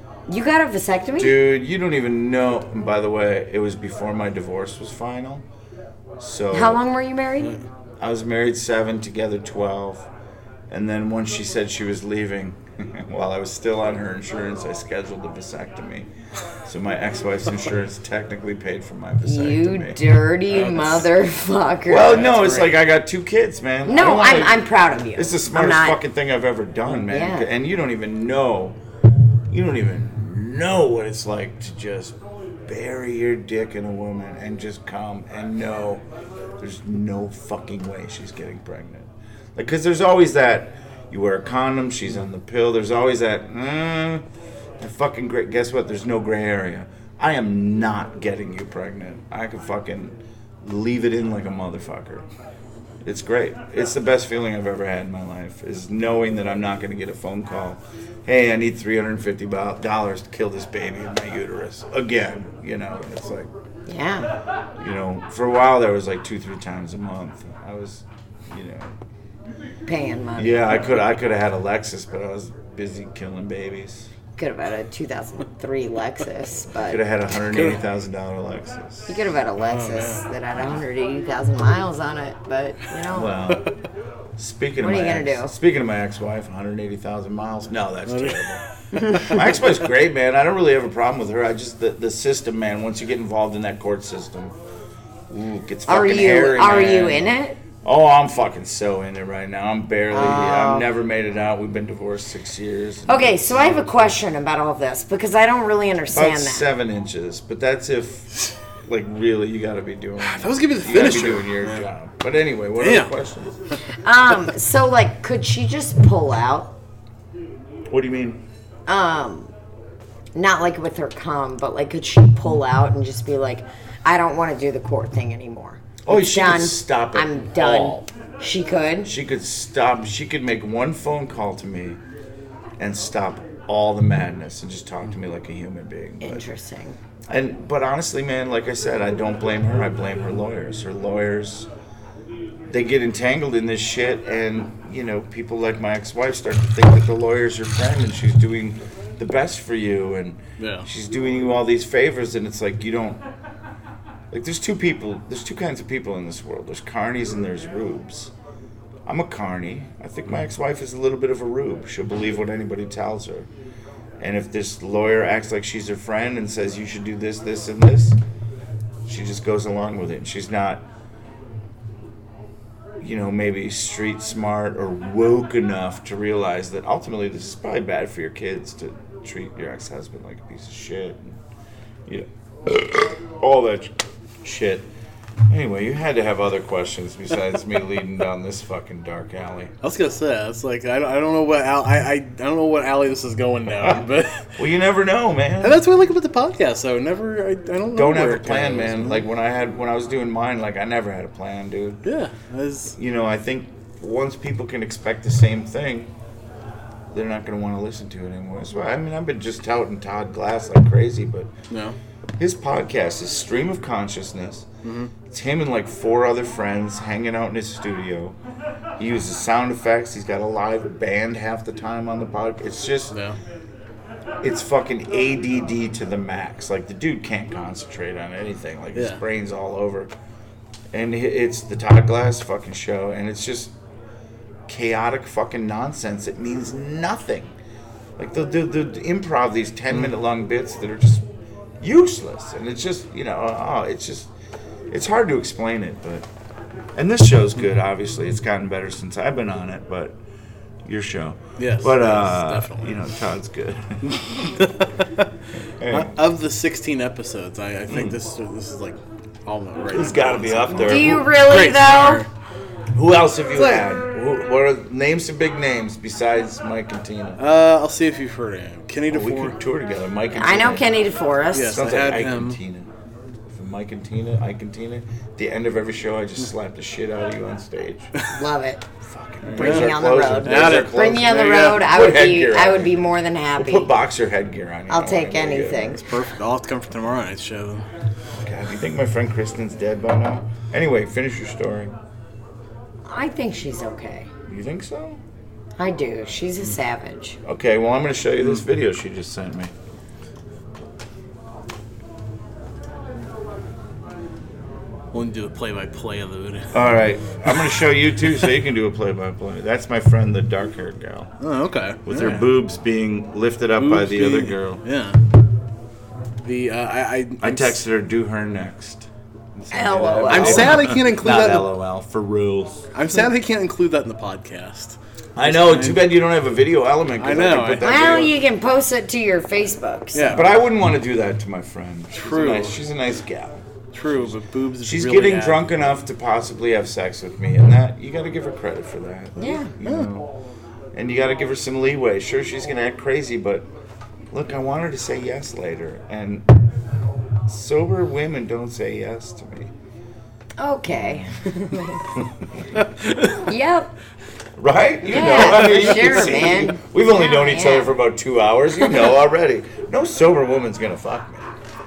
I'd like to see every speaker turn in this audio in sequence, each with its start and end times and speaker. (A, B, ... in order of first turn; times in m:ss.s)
0:00.3-0:01.4 A
0:01.2-0:05.4 B
0:06.2-0:06.8 B
0:06.5-0:07.6 A
0:08.0-0:10.1 B
0:10.7-0:16.1 B
0:16.6-0:20.0 B
0:19.2-0:22.7 A
0:20.6-0:21.0 B
0:21.9-0:28.8 B
0:23.8-0:26.0 A
0:27.1-0:27.5 A
0:29.5-0:36.0 B
0:36.6-0:44.2 B
0:44.8-0:52.2 B
0:53.0-1:03.5 B
1:03.9-1:04.3 A
1:04.8-1:08.9 B
1:09.8-1:10.8 A
1:10.4-1:14.1 B
1:14.4-1:17.0 A
1:16.9-1:19.2 B
1:17.5-1:17.8 C
1:19.1-1:23.4 A
1:19.6-1:20.2 C
1:23.1-1:23.7 B
1:24.4-1:28.6 B
1:24.8-1:25.5 A
1:28.1-1:29.4 C
1:29.0-1:29.3 A
1:29.2-1:34.6 B
1:35.3-1:44.2 B
1:35.9-1:37.6 A
1:40.1-1:40.9 A
1:43.1-1:46.6 A
1:46.1-1:48.3 B
1:48.8-1:53.6 B
1:50.2-1:51.9 C
1:52.8-1:53.1 C
1:54.0-1:56.7 A
1:57.9-1:58.4 B
1:58.9-1:59.5 A
2:00.3-2:09.1 A
2:06.0-2:08.0 B
2:09.0-2:12.0 B
2:12.8-2:16.4 B
2:16.2-2:17.0 A
2:17.3-2:21.7 B
2:22.7-2:33.2 B
2:30.6-2:30.9 C
2:34.3-2:38.3 B
2:39.0-2:43.5 B
2:44.2-2:48.2 B
2:49.0-2:50.8 B
2:53.0-3:01.4 B
3:02.1-3:04.9 B
3:05.5-3:09.7 B
3:09.8-3:14.6 C
3:14.6-3:15.8 B
3:15.6-3:19.2 C
3:17.9-3:22.0 B
3:22.0-3:23.0 C
3:22.9-3:26.1 B
3:27.1-3:31.5 B
3:31.7-3:32.0 C
3:32.4-3:34.7 B
3:34.8-3:35.1 C
3:35.3-3:38.4 B
3:39.0-3:43.2 B
3:43.1-3:43.4 C
3:44.4-3:50.1 B
3:48.9-3:49.2 C
3:50.9-3:53.7 B
3:54.7-3:57.5 B
3:58.2-4:01.2 B
4:01.8-4:04.3 B
4:04.9-4:06.2 B
4:06.9-4:10.2 B
4:10.8-4:14.5 B
4:11.6-4:13.0 C
4:14.1-4:15.3 C
4:15.8-4:16.2 B
4:15.9-4:22.3 C
4:17.9-4:18.2 B
4:19.9-4:21.3 B
4:20.7-4:22.2 A
4:22.9-4:27.4 B
4:23.5-4:23.8 C
4:27.4-4:29.6 C
4:29.1-4:30.9 B
4:30.3-4:31.8 A
4:31.5-4:32.6 C
4:31.6-4:32.9 B
4:33.5-4:38.1 B
4:38.3-4:38.8 A
4:39.0-4:46.0 B
4:39.4-4:41.8 C
4:39.6-4:43.9 A
4:44.9-4:46.0 A
4:46.0-4:47.9 C
4:48.3-4:51.9 B
4:53.0-4:54.3 A
4:54.5-4:55.2 B
4:55.8-4:57.4 A
4:57.4-4:59.7 B
5:05.1-5:06.7 C
5:06.7-5:11.3 B
5:11.4-5:12.5 C
5:12.0-5:14.8 B
5:13.8-5:15.2 C
5:16.4-5:17.8 C
5:17.4-5:22.9 B
5:19.7-5:20.9 A
5:20.3-5:21.7 C
5:22.9-5:26.0 C
5:25.4-5:28.3 B
5:27.2-5:28.1 C
5:27.8-5:30.4 A
5:30.1-5:30.4 C
5:30.3-5:40.3 B
5:32.1-5:32.8 C
5:33.9-5:35.9 C
5:39.4-5:39.7 A
5:39.8-5:40.1 C
5:40.9-5:43.7 B
5:44.3-5:46.5 B
5:47.5-5:49.7 B
5:50.6-5:52.1 A
5:51.0-5:51.3 B
5:52.1-5:52.7 B
5:52.8-5:53.4 C
5:53.4-5:53.9 A
5:54.6-6:01.5 B
5:55.1-5:57.9 A
5:55.3-5:56.4 C